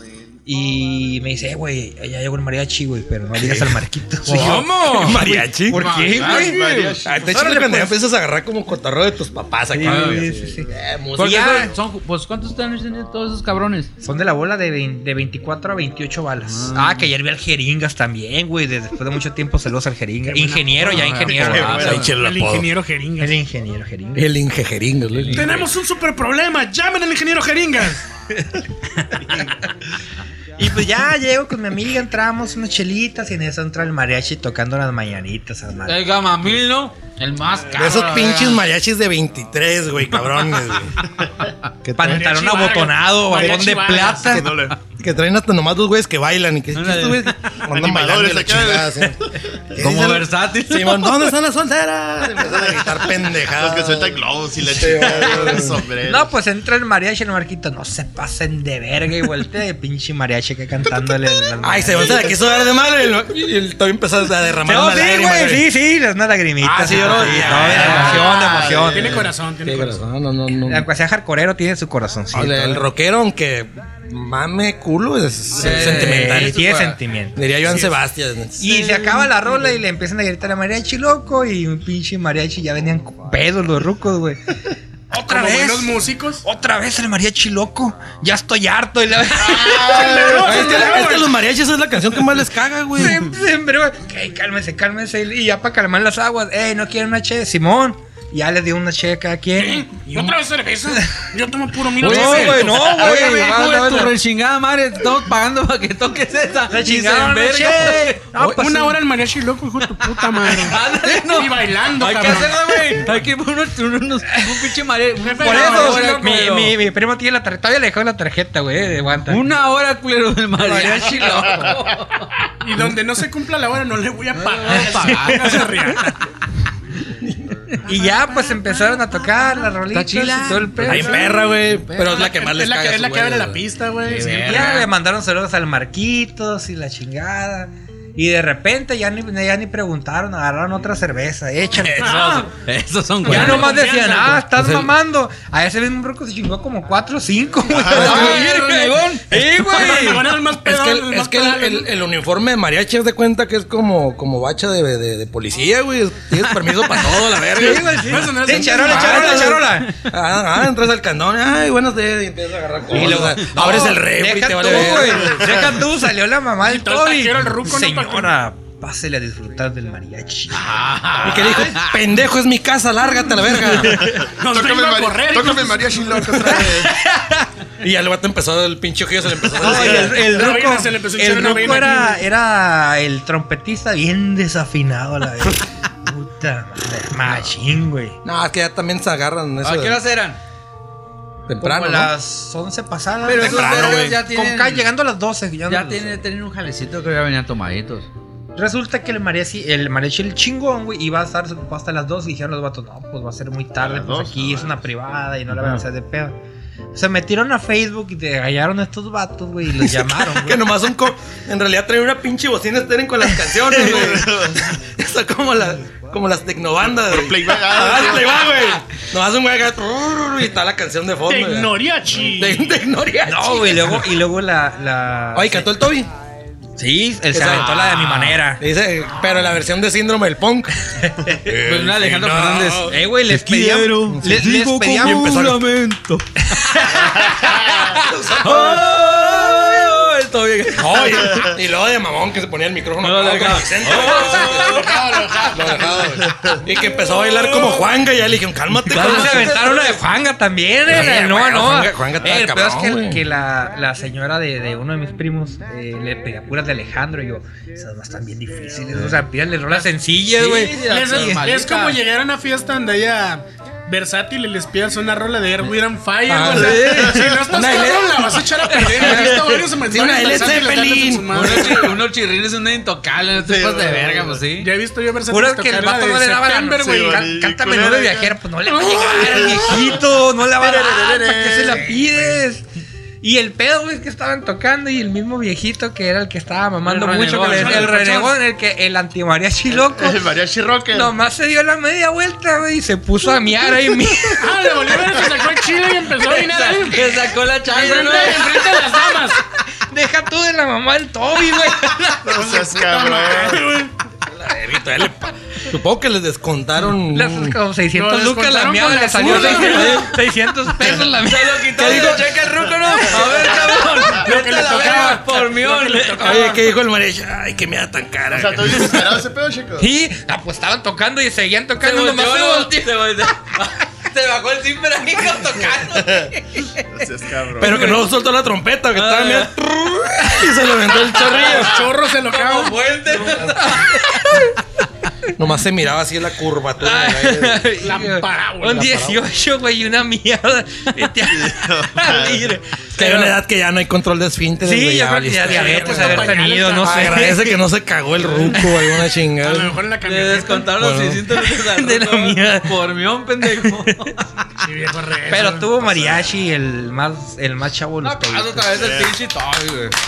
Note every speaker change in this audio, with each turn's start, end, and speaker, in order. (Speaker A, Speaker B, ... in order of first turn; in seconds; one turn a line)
Speaker A: 0.5-7.9
Speaker B: 3.4-5.9
Speaker C: 4.2-7.0
Speaker D: 6.0-7.5
Speaker B: 7.0-11.7
Speaker A: 9.7-11.7
Speaker C: 9.8-10.2
Speaker C: 11.2-13.9
Speaker A: 14.0-22.1
Speaker C: 16.4-17.1
Speaker E: 20.2-21.2
Speaker C: 20.8-22.1
Speaker D: 21.0-22.1
Speaker B: 21.6-22.7
Speaker E: 22.1-23.4
Speaker A: 23.2-24.4
Speaker B: 24.1-25.7
Speaker C: 25.1-25.7
Speaker E: 25.3-28.0
Speaker A: 30.6-36.6
Speaker C: 35.9-38.6
Speaker B: 37.7-41.0
Speaker B: 41.8-42.3
Speaker A: 42.0-44.6
Speaker E: 42.0-44.4
Speaker D: 44.3-44.8
Speaker B: 44.9-55.8
Speaker C: 46.7-47.4
Speaker D: 47.7-49.4
Speaker C: 49.8-51.3
Speaker D: 53.5-56.3
Speaker A: 56.0-62.4
Speaker B: 61.6-65.7
Speaker A: 64.6-69.3
Speaker B: 66.6-70.9
Speaker C: 66.9-68.4
Speaker D: 68.4-68.9
Speaker E: 68.8-70.0
Speaker A: 70.6-72.8
Speaker B: 72.3-76.7
Speaker C: 75.5-77.0
Speaker A: 75.6-77.8
Speaker B: 77.3-79.3
Speaker A: 78.6-91.1
Speaker E: 85.2-86.4
Speaker E: 89.6-91.3
Speaker B: 90.0-93.3
Speaker A: 93.0-100.0
Speaker E: 99.5-102.7
Speaker A: 102.0-104.1
Speaker C: 102.0-108.2
Speaker B: 102.0-104.1
Speaker A: 106.7-109.0
Speaker E: 108.6-112.6
Speaker C: 110.3-116.7
Speaker E: 115.2-116.5
Speaker A: 115.4-119.5
Speaker C: 119.3-122.4
Speaker A: 120.6-121.7
Speaker E: 122.6-126.2
Speaker C: 124.3-125.7
Speaker A: 124.9-125.9
Speaker A: 127.8-131.4
Speaker C: 129.9-132.2
Speaker B: 130.8-133.6
Speaker E: 132.0-134.8
Speaker C: 134.0-134.9
Speaker A: 134.2-142.5
Speaker C: 142.0-143.9
Speaker E: 142.0-142.4
Speaker E: 143.2-144.4
Speaker A: 143.2-150.2
Speaker B: 143.2-143.7
Speaker B: 144.3-144.9
Speaker D: 147.7-148.2
Speaker C: 147.9-150.2
Speaker B: 147.9-148.4
Speaker E: 148.0-151.9
Speaker B: 150.5-165.7
Speaker C: 156.5-157.2
Speaker A: 157.5-159.9
Speaker E: 157.6-159.6
Speaker C: 158.9-159.9
Speaker A: 162.9-171.4
Speaker C: 163.0-163.4
Speaker D: 165.3-165.7
Speaker E: 166.6-168.3
Speaker C: 170.5-172.0
Speaker B: 171.2-174.2
Speaker D: 174.1-177.0
Speaker E: 174.3-176.2
Speaker A: 176.5-177.4
Speaker B: 177.8-180.2
Speaker A: 179.5-188.2
Speaker E: 179.9-182.2
Speaker B: 188.2-190.0
Speaker C: 189.6-190.4
Speaker B: 191.5-192.1
Speaker A: 191.6-196.2
Speaker C: 193.2-194.9
Speaker B: 193.3-194.2
Speaker C: 195.7-198.1
Speaker A: 198.5-206.3
Speaker D: 203.8-204.8
Speaker A: 206.9-210.7
Speaker B: 209.7-224.1
Speaker D: 213.7-214.6
Speaker D: 217.1-218.3
Speaker E: 221.3-222.6
Speaker A: 223.2-225.7
Speaker B: 225.3-226.1
Speaker A: 226.8-228.6
Speaker B: 227.3-230.7
Speaker C: 227.4-228.4
Speaker A: 231.0-231.4
Speaker B: 231.2-233.1
Speaker C: 231.5-241.5
Speaker A: 232.9-235.5
Speaker B: 234.1-235.6
Speaker A: 236.5-237.6
Speaker D: 237.3-237.8
Speaker B: 237.9-238.9
Speaker B: 240.8-249.6
Speaker C: 243.0-245.8
Speaker E: 244.3-246.0
Speaker D: 246.3-246.6
Speaker C: 247.4-247.8
Speaker C: 248.9-250.0
Speaker A: 248.9-261.4
Speaker B: 250.8-253.2
Speaker C: 260.3-262.0
Speaker E: 260.8-271.9
Speaker B: 266.3-271.9
Speaker D: 266.6-267.4
Speaker C: 271.3-274.7
Speaker D: 273.4-274.4
Speaker E: 274.6-277.2
Speaker A: 275.3-282.6
Speaker D: 276.8-278.4
Speaker E: 278.6-279.8
Speaker D: 278.9-282.0
Speaker A: 283.2-290.3
Speaker C: 286.8-288.3
Speaker E: 287.4-288.3
Speaker D: 289.7-291.1
Speaker A: 290.9-295.2
Speaker E: 294.4-299.4
Speaker C: 296.2-298.7
Speaker A: 299.7-302.4
Speaker D: 302.2-303.6
Speaker E: 302.4-303.9
Speaker B: 304.3-307.6
Speaker A: 307.1-313.4
Speaker E: 307.9-310.1
Speaker C: 309.2-310.1
Speaker B: 309.3-309.8
Speaker C: 311.2-316.5
Speaker B: 311.8-312.3
Speaker D: 313.3-313.7
Speaker E: 314.0-316.6
Speaker B: 316.2-319.2
Speaker D: 318.3-319.9
Speaker A: 319.8-322.8
Speaker C: 321.8-327.0
Speaker D: 325.9-326.3
Speaker D: 326.9-327.9
Speaker B: 327.6-331.9
Speaker C: 328.9-329.6
Speaker C: 330.6-334.4
Speaker E: 331.2-332.8
Speaker B: 333.1-333.6
Speaker A: 333.6-334.5
Speaker B: 335.4-337.7
Speaker A: 336.8-343.3
Speaker E: 337.8-339.0
Speaker B: 338.7-339.2
Speaker D: 341.3-342.5
Speaker B: 342.9-349.8
Speaker A: 344.6-347.6
Speaker E: 345.4-347.3
Speaker E: 348.2-348.7
Speaker E: 349.4-350.7
Speaker C: 350.0-354.2
Speaker B: 350.7-351.2
Speaker A: 351.3-352.8
Speaker A: 353.4-354.1
Speaker E: 354.6-355.7
Speaker A: 355.3-358.9
Speaker D: 355.8-356.3
Speaker C: 358.0-359.9
Speaker D: 358.7-359.2